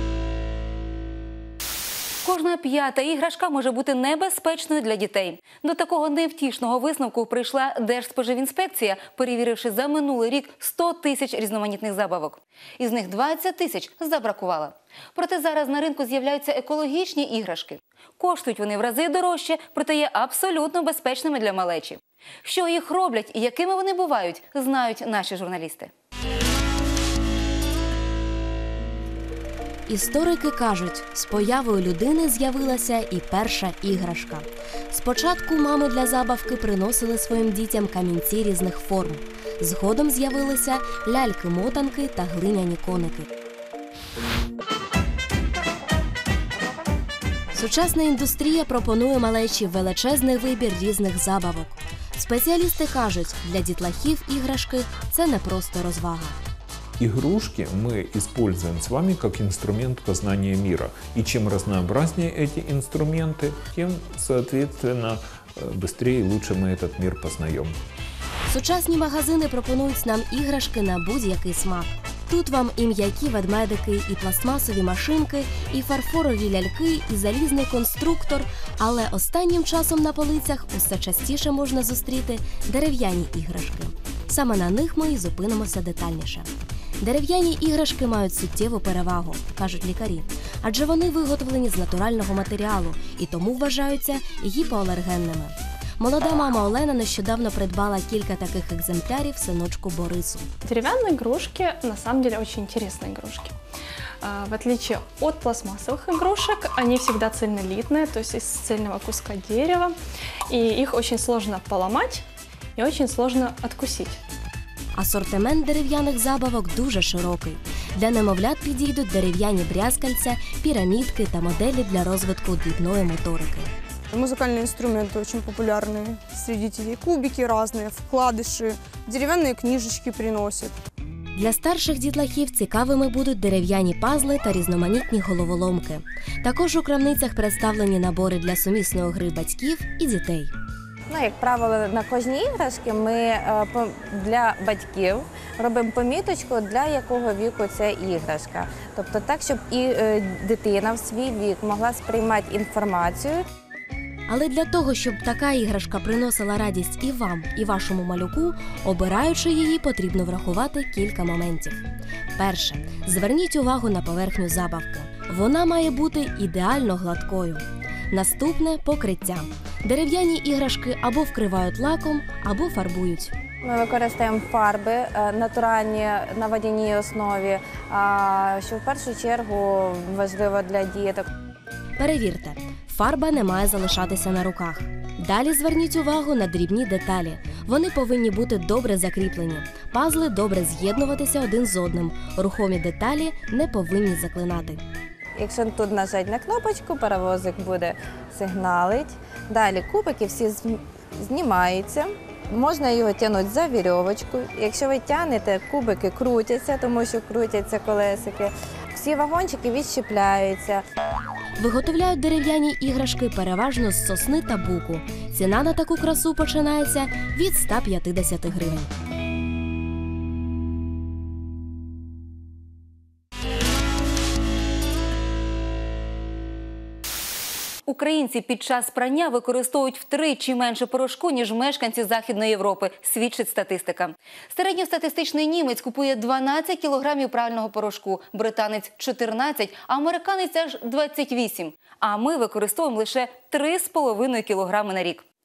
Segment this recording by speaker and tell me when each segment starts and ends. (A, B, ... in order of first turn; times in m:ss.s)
0:02.2-0:25.9 A
0:29.9-0:43.3 B
0:47.5-0:56.4 B
0:57.0-1:07.8 C
1:08.5-1:26.5 B
1:27.0-1:40.5 B
1:40.6-1:43.6 D
1:44.2-1:50.0 D
1:50.5-1:52.2 D
1:52.8-1:54.2 D
1:55.0-2:03.7 B
2:04.1-2:10.8 E
2:11.4-2:20.5 B
2:21.1-2:33.4 F
2:34.3-2:41.8 B
2:42.4-2:53.3 B
2:53.6-3:01.3 F
3:02.0-3:14.8 B
3:15.4-3:30.8 F
3:31.6-3:38.9 B
3:47.9-4:05.2 A